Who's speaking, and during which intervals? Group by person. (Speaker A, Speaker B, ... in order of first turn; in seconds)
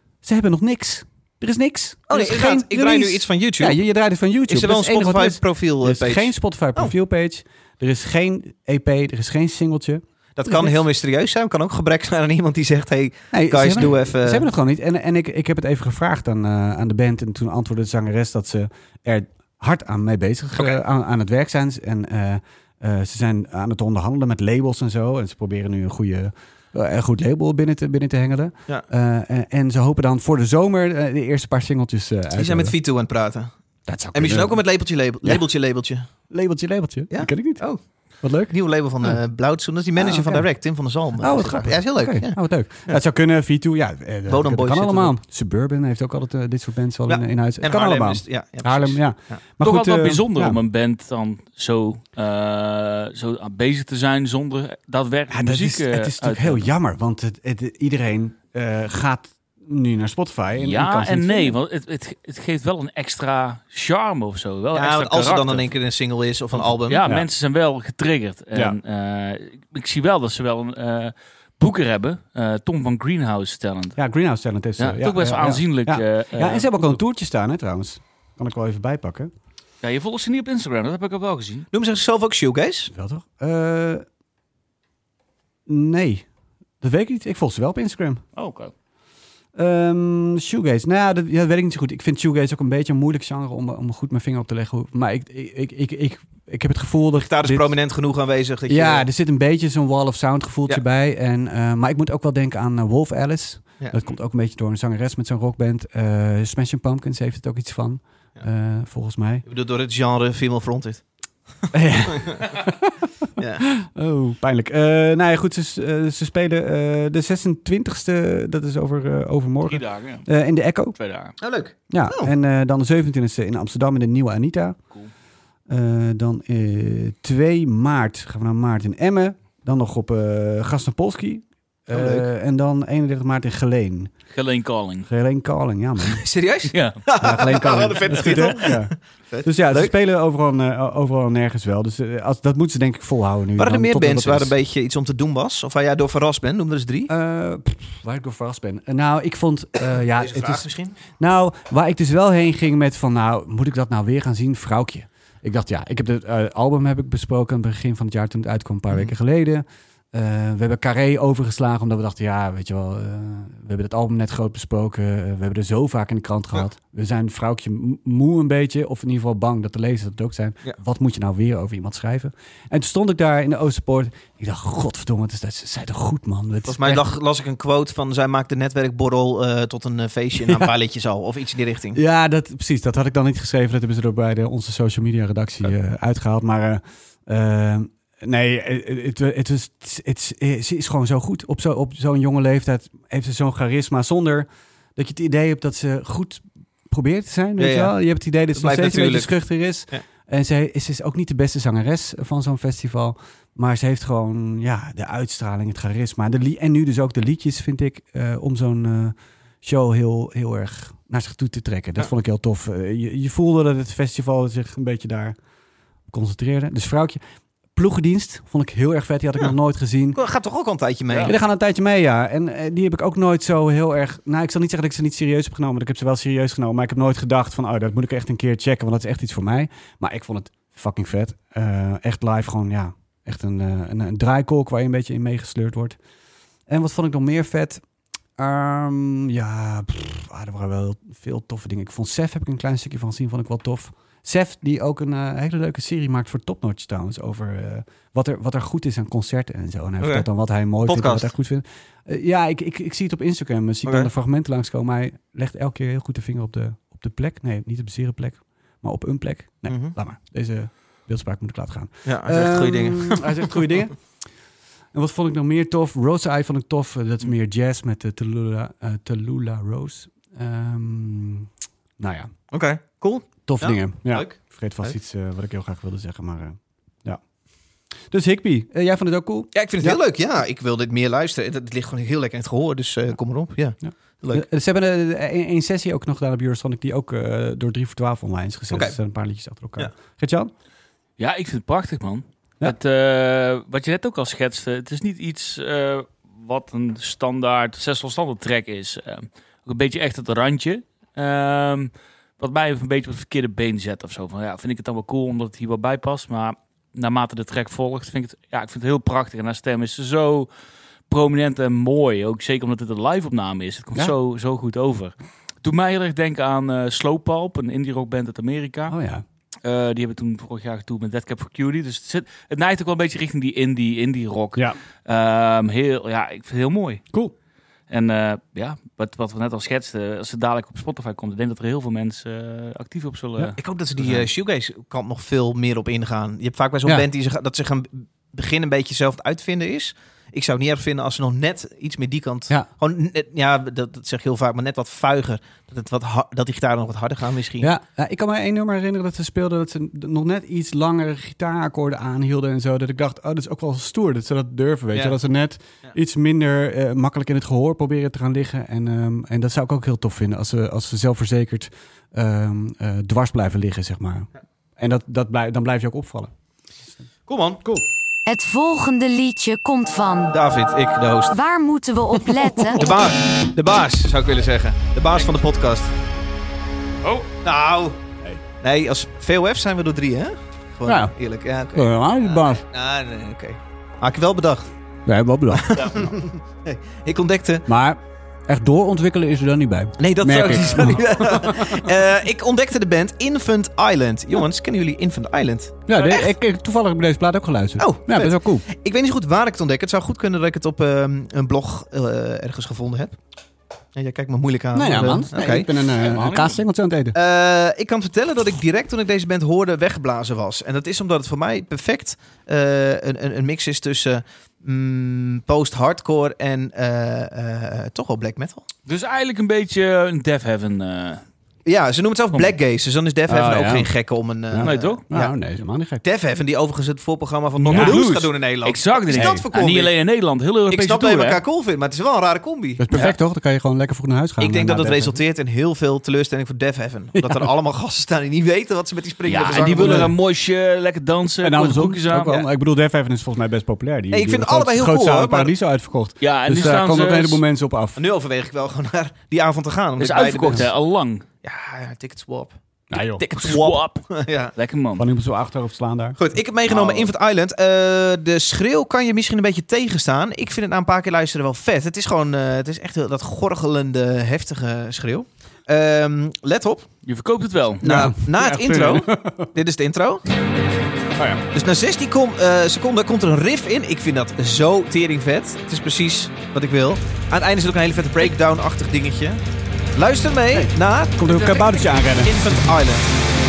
Speaker A: 0.2-10.8, 13.3-32.8, 33.9-34.7, 36.3-37.7, 38.2-39.2, 40.0-40.5, 41.2-50.6, 55.3-61.6, 74.0-79.3, 82.9-84.0, 85.7-86.3, 86.8-88.2, 89.5-97.8, 98.7-109.5, 111.7-113.0, 113.6-121.0, 121.9-124.8, 125.7-134.1, 135.1-136.2, 137.2-144.5, 147.1-177.1, 181.9-215.4, 216.1-217.2, 217.8-220.2, 221.2-236.0, 236.7-237.8, 238.4-264.0, 264.9-272.3, 273.5-277.2, 278.1-280.0, 283.8-290.5, 318.9-319.2, 347.6-366.3, 380.9-381.1, 381.7-382.6, 385.1-386.1, 387.7-391.9, 395.9-398.6, 404.7-407.2, 423.3-423.9, 424.5-426.0, 427.6-428.0, 429.1-429.4, 432.8-435.2, 437.2-437.5, 439.7-440.1, 441.4-448.0, 452.9-453.5, 455.0-456.2, 467.8-469.5, 471.2-471.4, 480.5-482.4
Speaker B: 2.1-3.8, 4.5-6.9, 10.4-14.5, 32.4-33.5, 34.1-36.1, 37.1-37.9, 38.4-42.4, 44.3-45.2, 47.1-49.4, 64.7-67.0, 81.7-82.9, 97.2-99.1, 109.5-111.0, 112.1-112.5, 113.4-113.7, 121.4-122.3, 131.9-132.3, 136.1-139.9, 143.6-147.1, 150.2-151.0, 176.7-182.0, 197.6-197.9, 198.6-199.3, 220.2-221.4, 250.0-250.3, 250.9-251.3, 253.8-254.1, 259.7-260.0, 262.1-263.9, 272.5-274.9, 279.5-284.5, 288.7-289.0, 333.6-347.7, 367.3-367.6, 370.3-371.4, 372.7-375.9, 377.4-378.0, 378.6-384.7, 385.5-387.7, 390.0-396.2, 397.8-403.2, 403.9-405.7, 407.1-418.6, 421.7-425.3, 426.0-429.9, 430.7-432.8, 434.4-440.1, 444.1-445.5, 448.0-450.7, 451.4-454.5, 456.2-466.9, 467.8-470.2, 471.5-479.4, 479.9-483.1
Speaker C: 49.6-56.7, 60.6-65.7, 66.6-74.0, 74.8-77.0, 79.8-81.7, 88.4-88.7, 119.7-120.3, 121.0-121.4, 134.3-135.1, 136.7-137.1, 291.2-310.5, 311.1-318.9, 319.6-327.1, 327.9-334.3, 377.0-377.3, 390.4-391.0, 406.0-406.6, 418.9-421.2, 424.6-425.0, 427.7-431.4, 439.3-442.3, 446.2-447.4, 450.0-451.2, 453.3-455.1, 456.7-457.1, 467.1-467.9
Speaker D: 368.3-370.4, 371.3-372.9